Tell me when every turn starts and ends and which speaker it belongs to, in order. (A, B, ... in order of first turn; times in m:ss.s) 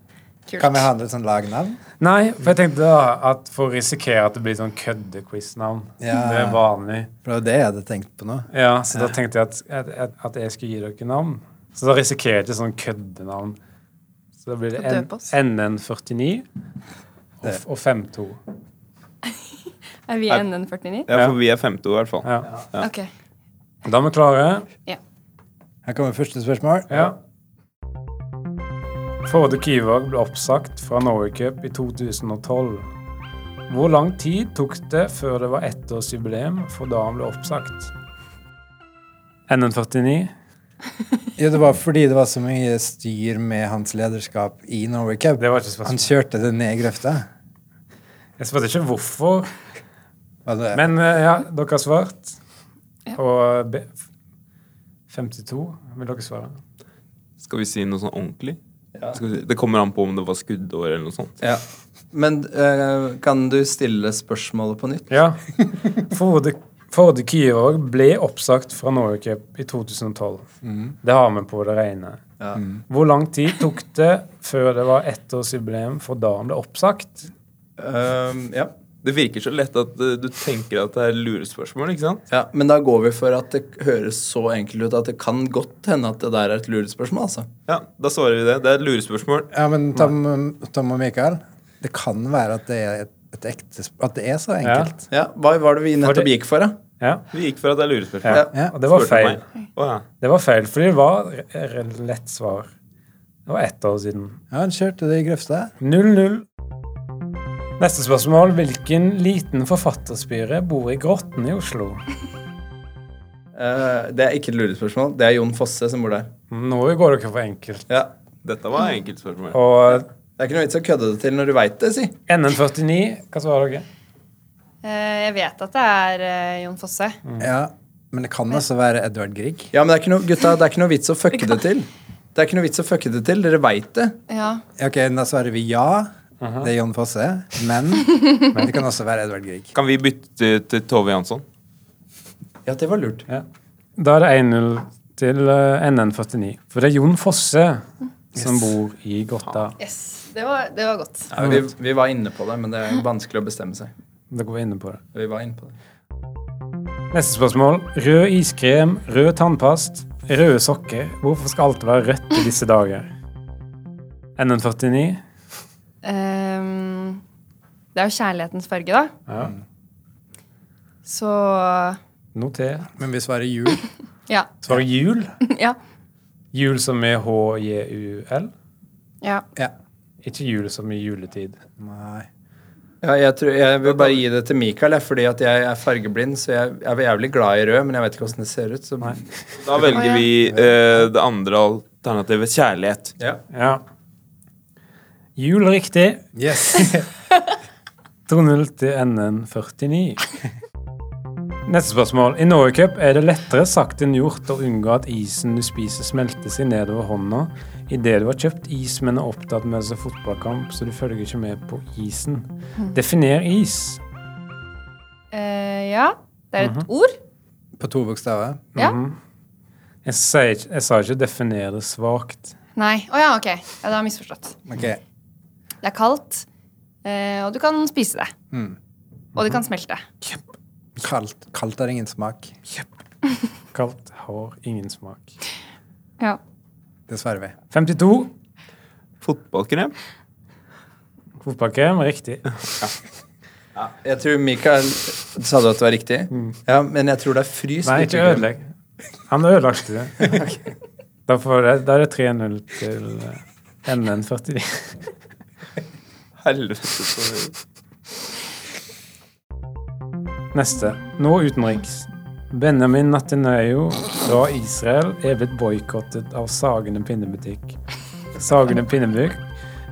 0:00.5-0:00.8 A
0:00.6-0:01.8 B
0:02.0-0:07.1 C
0:06.0-0:06.6 B
0:07.2-0:09.1 B
0:08.5-0:13.6 C
0:14.4-0:16.4 C
0:14.8-0:15.3 A
0:17.4-0:18.4 C
0:20.1-0:21.1 A
0:21.1-0:22.9 D
0:22.2-0:22.6 C
0:22.8-0:23.1 A
0:23.8-0:24.7 C
0:25.8-0:27.1 B
0:26.9-0:27.2 C
0:29.2-0:32.9 C
0:33.7-0:37.9 C
0:39.5-0:40.3 C
0:41.4-0:47.3 B
0:45.4-0:46.1 C
0:48.4-0:49.5 C
0:50.5-0:50.8 B
0:50.7-0:52.4 C
0:53.1-0:54.0 C
0:55.1-0:56.6 C
0:57.4-0:58.6 D
0:59.1-1:01.4 D
1:01.4-1:05.1 E
1:05.1-1:10.5 C
1:10.6-1:10.9 B
1:11.0-1:12.2 C
1:12.9-1:17.3 C
1:17.8-1:18.7 E
1:19.0-1:22.2 D
1:22.3-1:27.5 E
1:27.7-1:29.5 D
1:29.5-1:35.0 B
1:34.6-1:34.9 C
1:35.1-1:36.8 E
1:36.0-1:36.3 C
1:37.0-1:37.3 C
1:37.3-1:40.0 D
1:38.2-1:39.4 C
1:40.2-1:42.7 C
1:43.5-1:44.4 C
1:44.5-1:45.7 B
1:45.8-1:46.4 C
1:47.8-1:52.0 C
1:53.6-1:56.3 E
1:56.5-1:57.9 C
1:58.4-1:59.6 D
1:59.5-2:00.1 C
2:00.4-2:02.2 E
2:02.3-2:03.9 C
2:04.8-2:07.2 A
2:07.4-2:09.7 B
2:09.7-2:14.2 E
2:14.3-2:14.6 A
2:14.8-2:16.1 B
2:16.4-2:16.7 C
2:16.6-2:19.7 B
2:19.8-2:21.4 D
2:22.6-2:23.3 E
2:24.0-2:29.8 C
2:28.4-2:28.6 B
2:29.8-2:31.3 A
2:31.3-2:33.9 E
2:34.3-2:35.0 C
2:35.1-2:35.7 E
2:37.1-2:43.1 C
2:44.4-2:45.2 C
2:46.0-2:47.2 A
2:48.0-2:49.1 A
2:49.3-2:49.6 C
2:51.0-2:52.0 A
2:52.4-2:52.9 C
2:53.0-2:53.8 B
2:54.3-2:54.6 A
2:54.6-2:55.4 C
2:55.4-2:55.8 A
2:56.5-2:58.5 C
2:59.2-2:59.5 A
3:00.2-3:01.6 C
3:01.8-3:02.3 B
3:03.0-3:09.3 E
3:09.6-3:13.1 D
3:09.9-3:10.3 A
3:10.5-3:10.8 B
3:13.5-3:13.8 C
3:15.4-3:16.3 C
3:16.4-3:17.1 B
3:18.3-3:20.2 C
3:21.7-3:34.0 C
3:35.3-3:37.2 A
3:36.6-3:36.9 C
3:37.8-3:38.7 B
3:38.8-3:39.2 C
3:40.0-3:42.6 C
3:42.8-3:44.6 A
3:44.7-3:45.0 B
3:45.8-3:46.5 A
3:47.0-3:48.3 A
3:48.5-3:48.8 B
3:49.4-3:50.0 A
3:51.0-3:52.5 B
3:53.7-3:55.4 C
3:57.1-3:57.6 B
3:57.7-3:58.3 C
3:59.2-3:59.9 D
4:01.4-4:02.6 C
4:03.8-4:08.4 E
4:06.3-4:06.6 C
4:07.8-4:08.7 C
4:09.3-4:10.4 C
4:10.2-4:10.6 E
4:11.3-4:15.0 C
4:16.4-4:17.6 D
4:20.5-4:27.8 C
4:28.4-4:29.4 C